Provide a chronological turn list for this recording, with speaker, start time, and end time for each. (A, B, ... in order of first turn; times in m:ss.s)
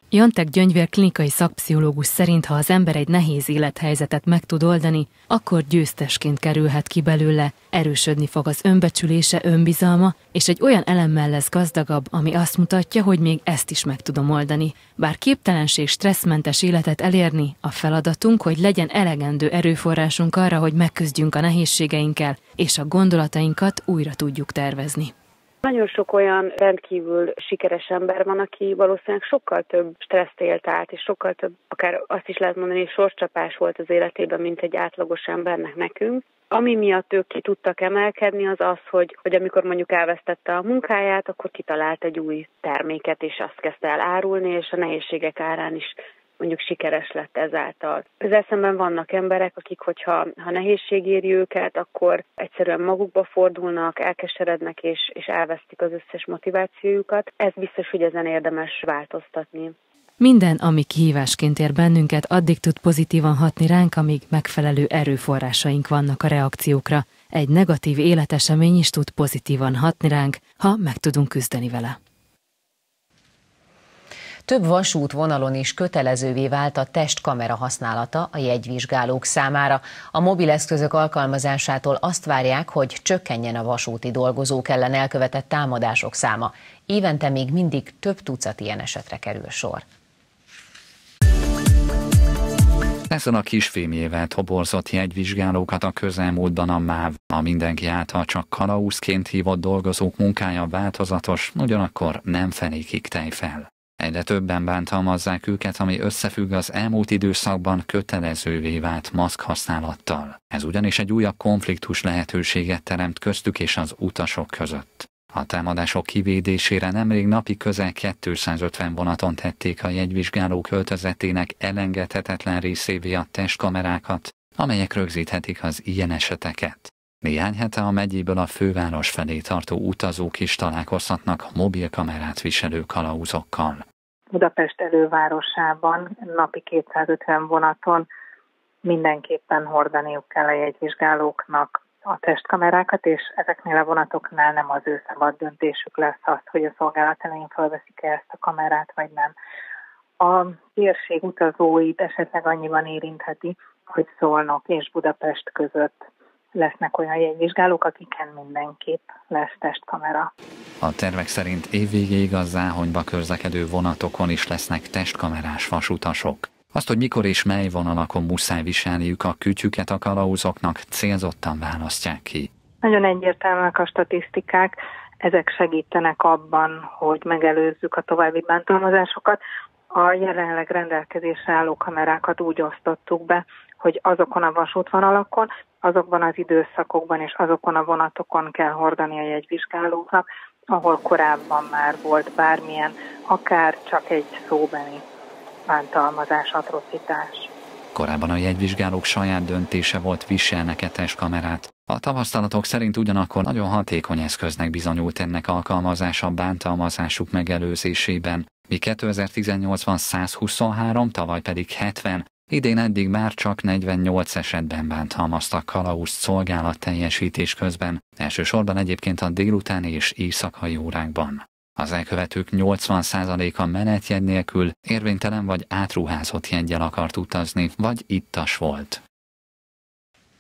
0:00.1-0:25.1 A
0:25.6-0:59.8 B
1:00.2-1:12.0 A
1:14.5-1:29.8 C
1:33.1-2:13.8 D
2:14.3-2:18.1 E
2:18.8-2:29.3 E
2:30.2-2:40.3 E
2:40.8-2:52.5 D
2:52.8-2:59.4 E
2:59.9-3:15.0 E
3:15.7-3:17.5 E
3:17.9-3:49.0 D